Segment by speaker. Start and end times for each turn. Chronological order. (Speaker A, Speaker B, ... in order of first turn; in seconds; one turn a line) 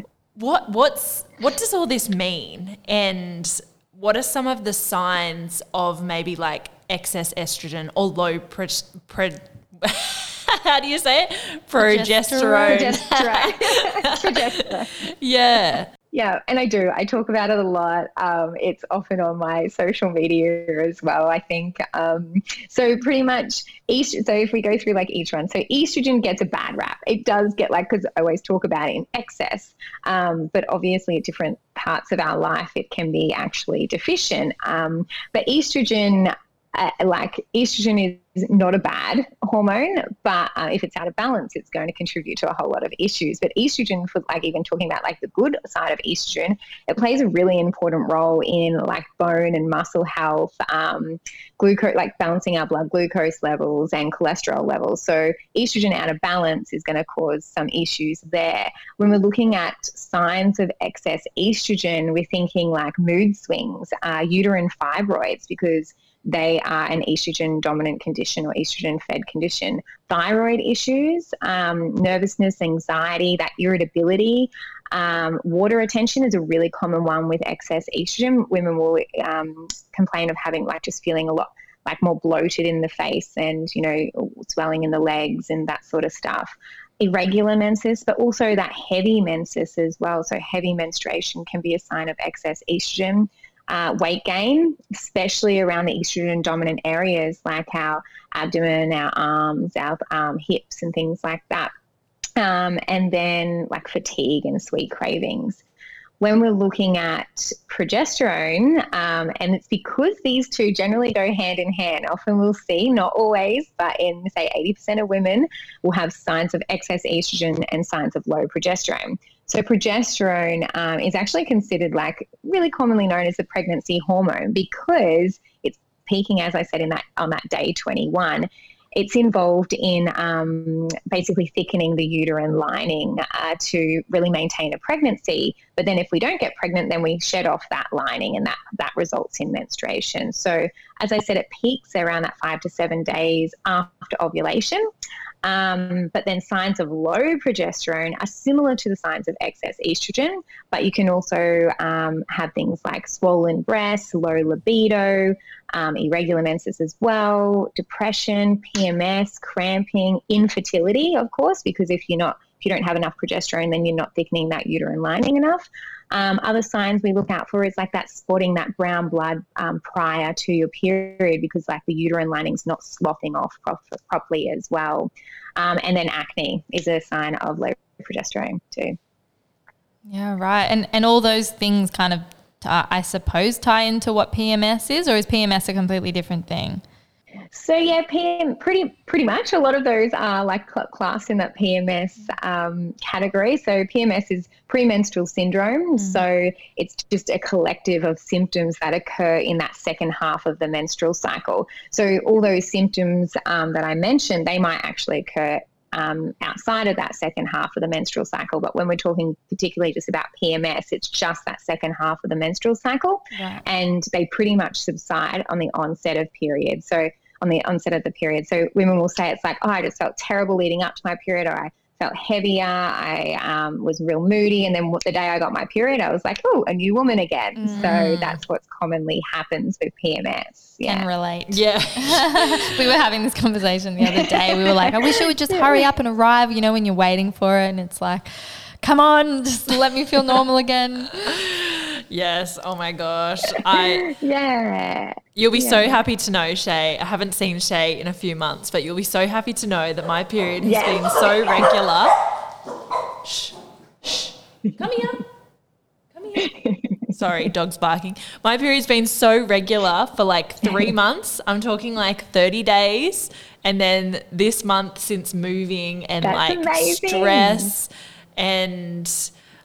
Speaker A: 0.3-15.9
Speaker B: 11.8-13.0
Speaker C: 12.7-15.1
Speaker C: 16.1-101.7
Speaker C: 102.4-105.6
Speaker C: 106.2-144.8
Speaker C: 145.4-179.0
Speaker B: 180.1-186.8
Speaker C: 187.5-231.1
Speaker B: 196.0-196.2
Speaker B: 213.3-213.6
Speaker B: 227.6-228.0
Speaker A: 227.7-228.4
Speaker B: 230.8-241.4
Speaker A: 231.5-232.8
Speaker C: 234.2-234.9
Speaker C: 235.5-235.8
Speaker A: 241.2-244.1
Speaker C: 243.5-245.9
Speaker A: 245.3-252.3
Speaker C: 250.6-251.9
Speaker A: 253.2-255.3
Speaker A: 256.1-269.3
Speaker C: 256.4-257.1
Speaker C: 260.6-260.9
Speaker C: 266.2-267.7